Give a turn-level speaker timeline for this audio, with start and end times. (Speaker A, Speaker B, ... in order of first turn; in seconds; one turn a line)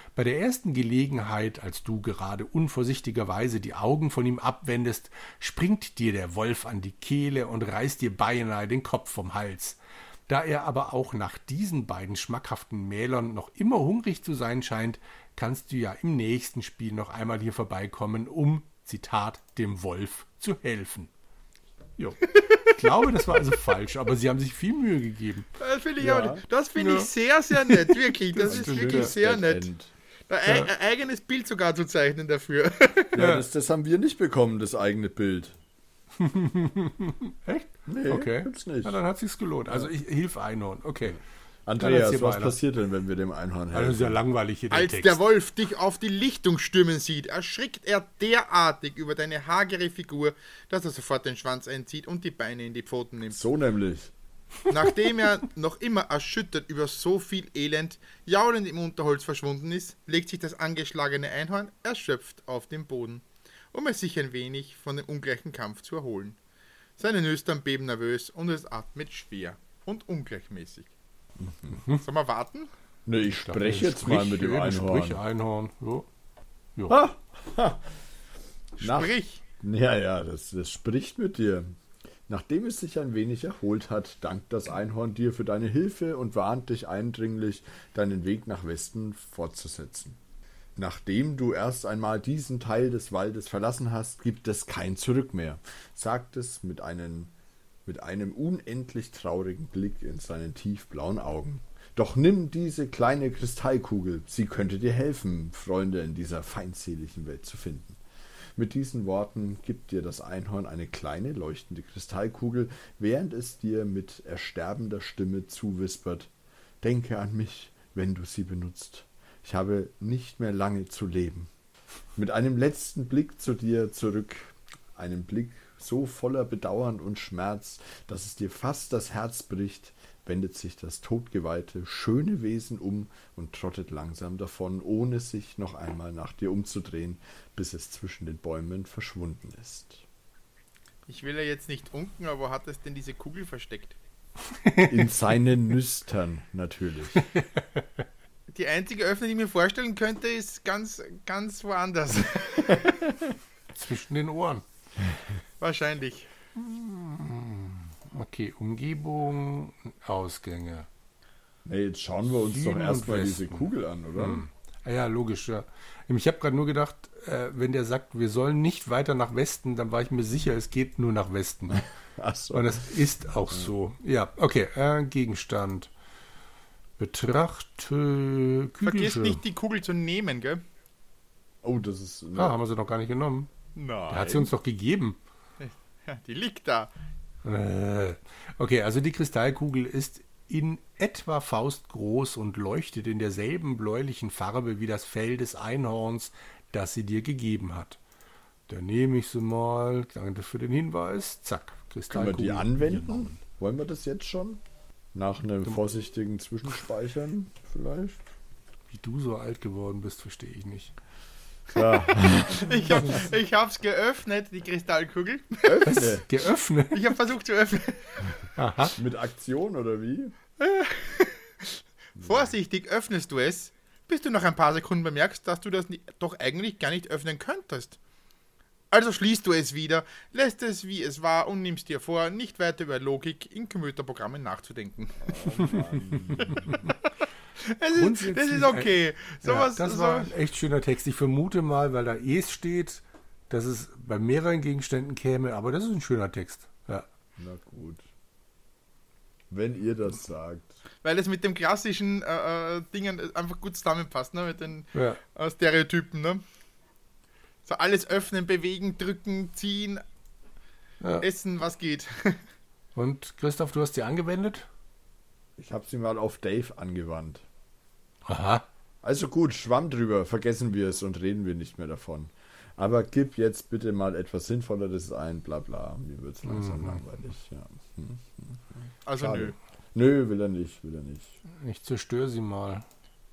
Speaker A: 0.1-21.1
Speaker A: 22.0-25.5
Speaker B: 22.4-22.7
Speaker B: 25.6-29.7
Speaker C: 26.0-26.4
Speaker A: 26.8-29.1
Speaker C: 28.4-29.9
Speaker B: 30.3-33.2
Speaker C: 33.1-35.5
Speaker A: 33.2-33.4
Speaker A: 36.2-41.2
Speaker C: 37.9-39.0
Speaker C: 41.6-44.2
Speaker A: 41.8-42.6
Speaker A: 43.7-45.2
Speaker B: 44.7-53.4
Speaker C: 53.3-54.1
Speaker B: 54.7-66.4
Speaker B: 67.0-70.9
Speaker C: 71.4-71.8
Speaker A: 71.8-72.0
Speaker B: 72.0-72.7
Speaker C: 73.0-75.2
Speaker A: 73.4-76.1
Speaker C: 76.9-77.8
Speaker B: 78.8-79.4
Speaker C: 78.8-81.7
Speaker C: 82.3-90.2
Speaker C: 90.8-97.3
Speaker C: 97.8-108.0
Speaker C: 108.5-116.3
Speaker C: 116.8-121.5
Speaker C: 122.2-140.0
Speaker B: 141.1-143.9
Speaker A: 144.5-145.0
Speaker C: 144.8-147.2
Speaker A: 147.2-147.8
Speaker B: 148.5-153.2
Speaker A: 153.7-154.6
Speaker B: 155.6-156.3
Speaker A: 156.6-160.9
Speaker C: 161.6-164.4
Speaker A: 162.3-171.8
Speaker C: 172.2-172.9
Speaker A: 172.5-175.9
Speaker A: 177.0-179.4
Speaker B: 178.8-180.6
Speaker C: 181.6-182.6
Speaker A: 182.3-183.5
Speaker B: 183.7-184.5
Speaker A: 184.1-185.2
Speaker B: 185.6-186.9
Speaker A: 187.4-198.0
Speaker A: 198.7-203.4
Speaker C: 202.1-204.6
Speaker C: 205.1-208.2
Speaker A: 208.9-210.9
Speaker C: 211.7-213.2
Speaker B: 212.5-216.1
Speaker A: 212.9-213.2
Speaker C: 215.6-216.2
Speaker A: 215.8-217.1
Speaker B: 216.9-218.4
Speaker A: 218.6-218.9
Speaker C: 218.9-220.3
Speaker B: 220.6-228.0
Speaker C: 222.2-222.5
Speaker B: 228.9-235.8
Speaker C: 235.2-236.8
Speaker A: 236.4-236.8
Speaker B: 237.6-240.3
Speaker A: 237.9-238.9
Speaker A: 239.4-247.1
Speaker C: 247.4-248.0
Speaker C: 249.5-250.8
Speaker B: 251.0-256.4
Speaker A: 254.9-255.2
Speaker B: 257.6-260.0
Speaker A: 261.0-261.2
Speaker B: 261.2-262.4
Speaker A: 262.9-264.7
Speaker C: 265.6-267.4
Speaker A: 268.3-268.6
Speaker C: 269.0-281.4
Speaker A: 276.4-277.0
Speaker B: 279.1-279.5
Speaker A: 281.5-282.9